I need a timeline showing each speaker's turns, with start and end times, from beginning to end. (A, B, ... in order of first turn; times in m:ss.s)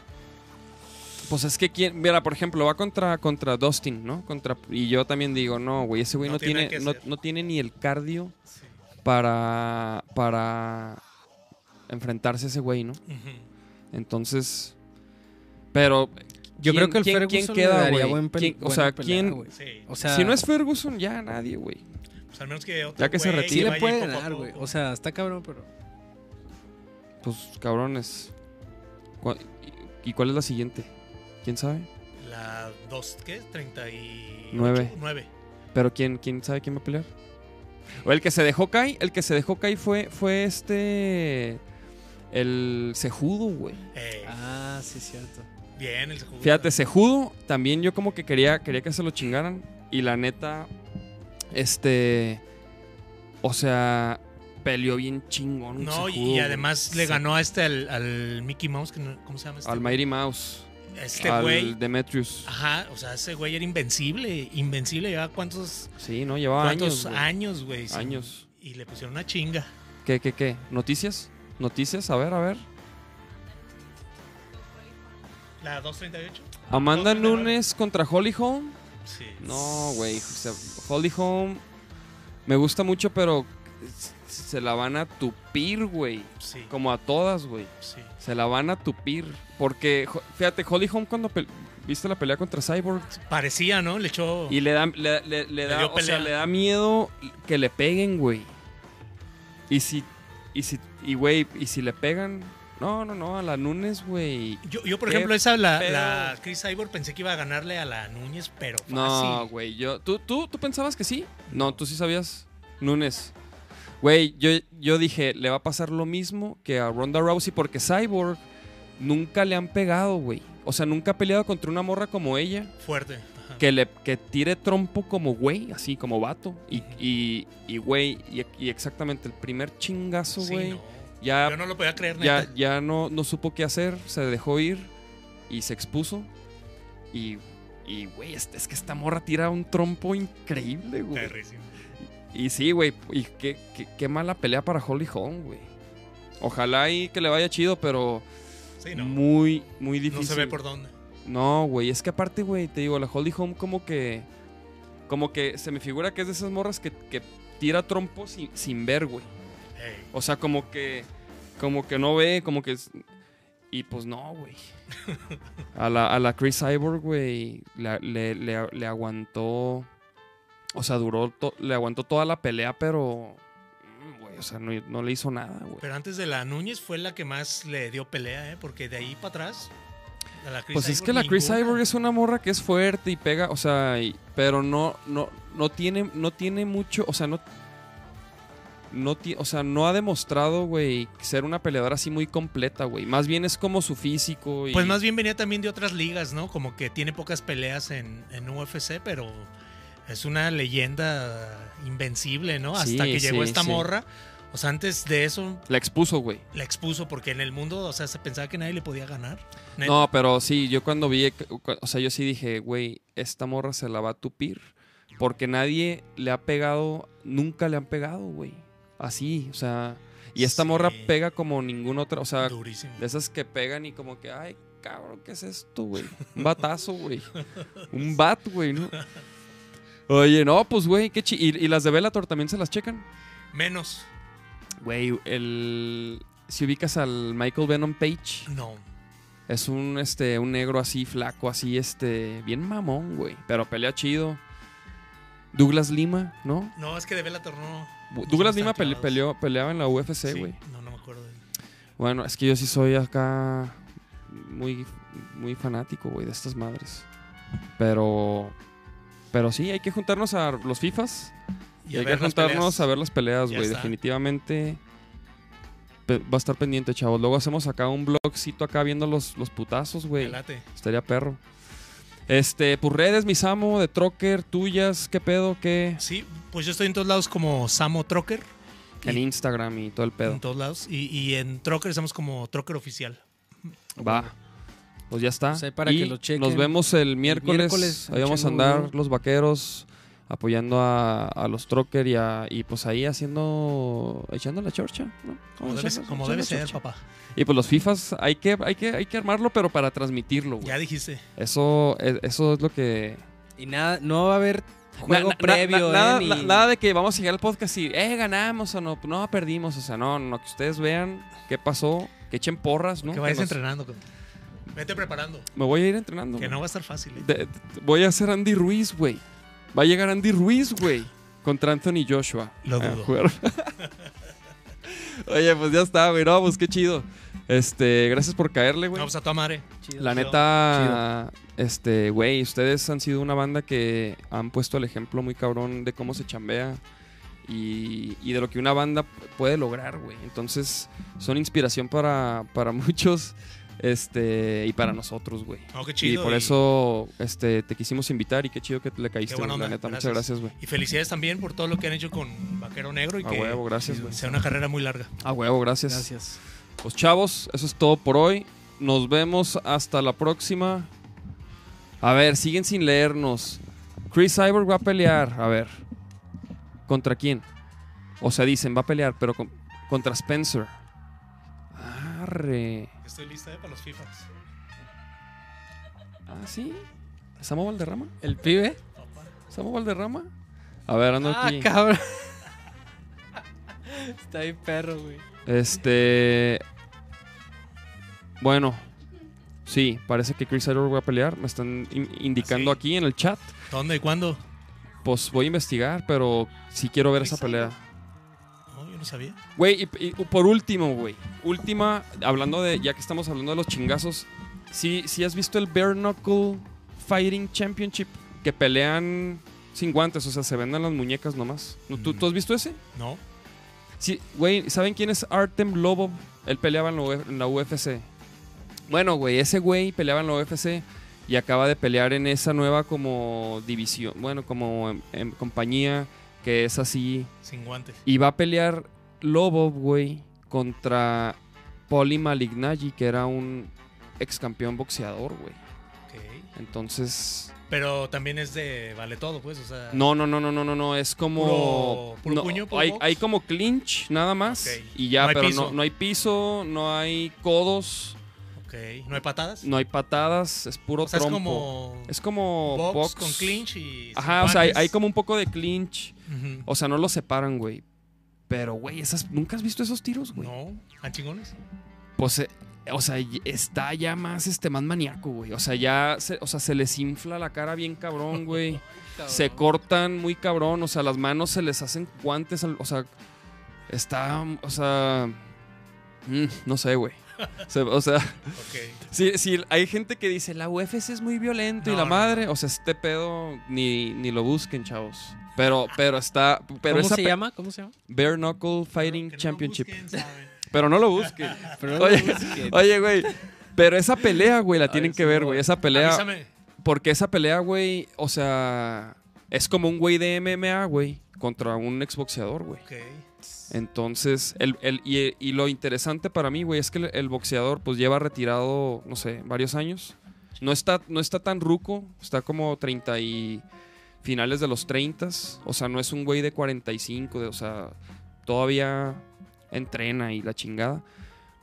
0:01.2-0:08.3 A
0:06.2-0:07.0 B
0:09.0-0:11.0 A
0:11.9-0:13.0 A
0:13.1-0:13.5 B
0:13.9-0:14.8 A
0:15.7-0:19.4 A
0:16.6-0:20.4 C
0:19.5-0:19.9 B
0:20.0-0:21.8 A
0:22.3-0:24.7 B
0:23.0-0:23.8 A
0:23.5-0:25.7 C
0:27.2-0:28.3 A
0:29.2-0:31.9 A
0:32.2-0:35.3 B
0:34.5-0:35.0 A
0:35.7-0:37.1 A
0:38.0-0:41.6 A
0:42.3-0:43.8 A
0:43.9-0:44.3 B
0:44.2-0:45.5 C
0:45.8-0:46.7 B
0:46.4-0:50.7 A
0:51.5-0:52.4 A
0:53.4-0:57.2 A
0:55.8-1:00.0 B
0:59.6-1:02.5 A
1:00.9-1:01.8 B
1:02.4-1:05.9 B
1:06.0-1:07.3 A
1:06.6-1:09.7 B
1:07.9-1:08.4 A
1:10.0-1:12.6 A
1:15.6-1:17.5 B
1:16.7-1:18.8 A
1:19.0-1:19.6 B
1:19.4-1:21.6 A
1:22.4-1:33.2 A
1:26.4-1:26.7 B
1:27.8-1:28.1 B
1:33.2-1:34.6 B
1:34.5-1:38.5 A
1:35.6-1:36.3 B
1:39.7-1:46.4 A
1:44.6-1:49.5 B
1:48.9-1:53.3 A
1:51.5-1:51.8 B
1:54.0-1:58.4 A
1:59.0-2:02.7 A
2:02.8-2:03.6 B
2:03.6-2:11.6 A
2:06.7-2:07.0 B
2:10.4-2:12.5 B
2:12.2-2:14.9 A
2:15.5-2:16.3 A
2:17.1-2:21.3 A
2:21.1-2:21.7 B
2:22.1-2:25.7 A
2:26.4-2:28.2 A
2:28.8-2:29.2 B
2:28.9-2:30.6 A
2:30.1-2:30.9 B
2:31.2-2:34.3 A
2:35.1-2:39.3 A
2:39.8-2:40.1 B
2:40.1-2:43.0 A
2:43.7-2:44.7 A
2:45.7-2:49.9 A
2:50.7-2:55.8 A
2:55.8-2:59.7 B
3:00.4-3:01.8 B
3:00.7-3:07.4 A
3:08.9-3:15.0 A
3:14.7-3:19.5 B
3:20.1-3:25.6 B
3:22.7-3:23.9 A
3:25.7-3:26.4 A
3:26.5-3:30.0 B
3:29.8-3:47.3 A
3:40.4-3:41.1 B
3:42.4-3:43.0 B
3:47.9-3:49.0 A
3:50.1-3:53.0 A
3:53.5-3:54.1 B
3:54.8-3:58.5 A
3:58.5-3:58.8 B
3:59.5-4:04.4 A
4:05.5-4:06.7 A
4:06.8-4:09.2 B
4:08.1-4:10.6 A
4:10.2-4:11.4 B
4:12.0-4:17.1 A
4:17.8-4:18.5 A
4:19.3-4:21.3 A
4:21.8-4:22.9 B
4:21.9-4:24.8 A
4:23.5-4:23.9 B
4:26.1-4:31.4 A
4:30.2-4:30.6 B
4:32.3-4:36.0 A
4:36.0-4:38.4 B
4:39.0-4:40.4 A
4:40.2-4:43.7 B
4:44.0-4:44.3 A
4:44.0-4:44.3 C
4:45.1-4:56.8 A
4:45.5-4:48.9 C
4:55.6-4:57.0 B
4:57.3-5:00.8 A
5:00.6-5:01.2 B
5:01.4-5:03.2 A
5:03.6-5:06.7 C
5:05.0-5:13.6 A
5:13.0-5:14.0 B
5:14.7-5:15.5 B
5:15.5-5:16.6 A
5:16.4-5:17.2 B
5:17.1-5:19.2 A
5:19.7-5:23.8 A
5:22.6-5:23.1 B
5:24.8-5:29.1 A
5:28.9-5:31.0 B
5:29.8-5:30.4 C
5:30.0-5:36.8 A
5:37.4-5:50.5 A
5:45.7-5:46.6 B
5:49.3-5:55.1 B
5:53.2-5:54.2 A
5:55.2-5:56.1 A
5:55.9-5:56.4 C
5:56.8-6:00.9 A
6:02.0-6:05.8 A
6:06.9-6:07.4 A
6:08.2-6:10.7 A
6:11.7-6:12.9 A
6:13.0-6:14.3 B
6:16.3-6:16.9 A
6:17.4-6:18.1 A
6:18.2-6:18.8 C
6:18.9-6:19.3 B
6:19.5-6:20.3 A
6:20.9-6:21.7 A
6:21.2-6:22.4 C
6:23.9-6:25.2 C
6:25.4-6:26.6 A
6:28.4-6:28.9 A
6:29.6-6:33.5 A
6:32.4-6:32.8 B
6:33.7-6:34.4 B
6:35.0-6:37.8 A
6:37.2-6:37.7 B
6:38.7-6:39.4 B
6:39.6-6:52.8 A
6:51.9-6:52.3 B
6:52.9-6:53.2 B
6:54.0-6:58.1 A
6:58.9-7:07.3 A
7:07.4-7:08.0 B
7:08.0-7:11.4 A
7:11.9-7:15.6 A
7:16.1-7:16.5 B
7:16.5-7:17.5 A
7:17.7-7:20.0 B
7:19.9-7:28.2 A
7:21.4-7:23.2 B
7:24.4-7:25.8 B
7:28.6-7:29.7 B
7:29.6-7:33.6 A
7:31.0-7:34.9 B
7:34.1-7:37.8 A
7:36.3-7:36.6 B
7:38.5-7:40.5 A
7:40.3-7:41.6 B
7:42.2-7:53.1 A
7:49.2-7:49.7 C
7:53.9-7:55.4 A
7:56.2-8:07.4 A
7:58.5-7:59.0 B
8:01.8-8:02.5 B
8:06.8-8:07.9 C
8:08.1-8:10.0 A
8:09.0-8:10.6 B
8:10.6-8:16.3 A
8:11.6-8:12.8 C
8:14.9-8:15.7 C
8:15.9-8:16.5 B
8:16.8-8:22.8 A
8:22.8-8:23.2 B
8:23.7-8:33.6 A
8:34.2-8:41.0 A